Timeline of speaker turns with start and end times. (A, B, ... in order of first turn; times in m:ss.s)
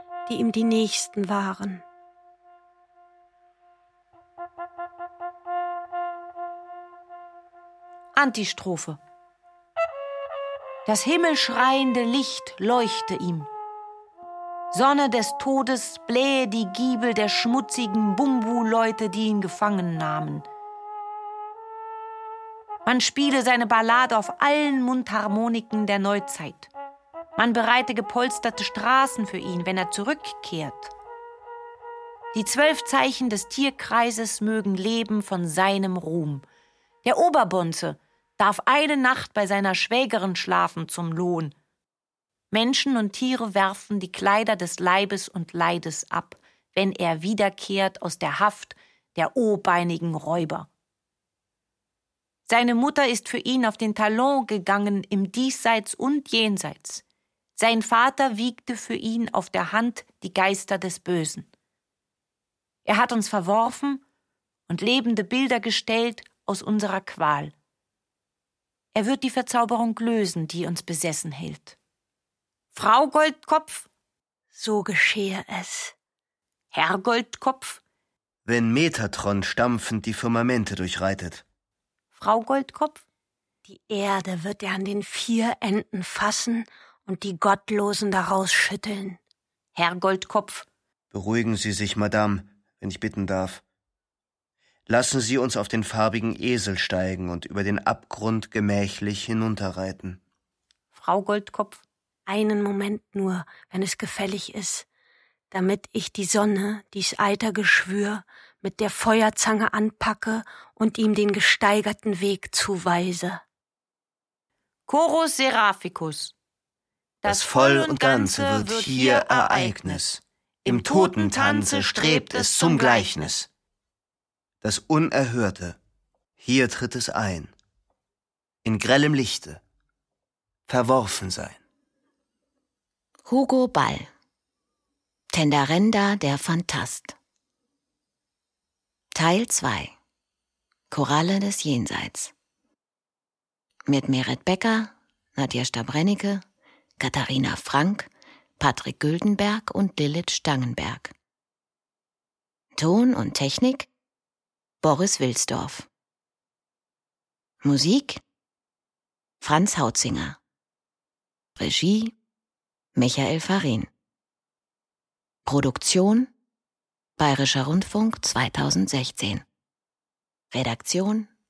0:00.3-0:01.8 A
0:08.1-0:09.0 B
0:10.8-0:13.5 B
0:14.7-0:20.4 B
0:22.8-0:26.7 B
0:27.4-0:30.9 B
0:32.3-0:36.4 B
0:37.0-0:41.5 B
0:42.5-0:50.7 B
0:52.5-0:57.0 B
0:57.6-1:01.5 B
1:02.8-1:04.0 B
1:04.7-1:07.5 B
1:08.9-1:11.8 B
1:12.7-1:13.9 B
1:14.5-1:15.9 A
1:16.7-1:17.8 B
1:18.4-1:21.4 C
1:22.1-1:23.0 B
1:23.7-1:29.2 A
1:29.8-1:30.7 B
1:31.1-1:33.6 C
1:34.9-1:40.2 C
1:40.9-1:41.8 B
1:42.3-1:44.9 A
1:45.5-1:53.4 A
1:54.9-1:56.3 B
1:57.2-2:00.1 B
1:57.2-2:03.5 C
2:00.6-2:03.3 B
2:04.6-2:05.8 C
2:06.4-2:07.5 C
2:08.6-2:09.6 C
2:10.7-2:11.6 C
2:13.2-2:14.1 D
2:15.3-2:17.1 D
2:19.1-2:19.9 D
2:20.9-2:22.3 D
2:23.9-2:26.4 D
2:27.0-2:28.1 D
2:28.6-2:31.1 D
2:32.8-2:33.9 D
2:34.8-2:35.9 D
2:37.6-2:38.2 D
2:39.4-2:40.4 D
2:41.6-2:42.1 D
2:42.9-2:43.9 D
2:45.4-2:46.3 D
2:47.2-2:49.4 D
2:50.5-2:51.3 D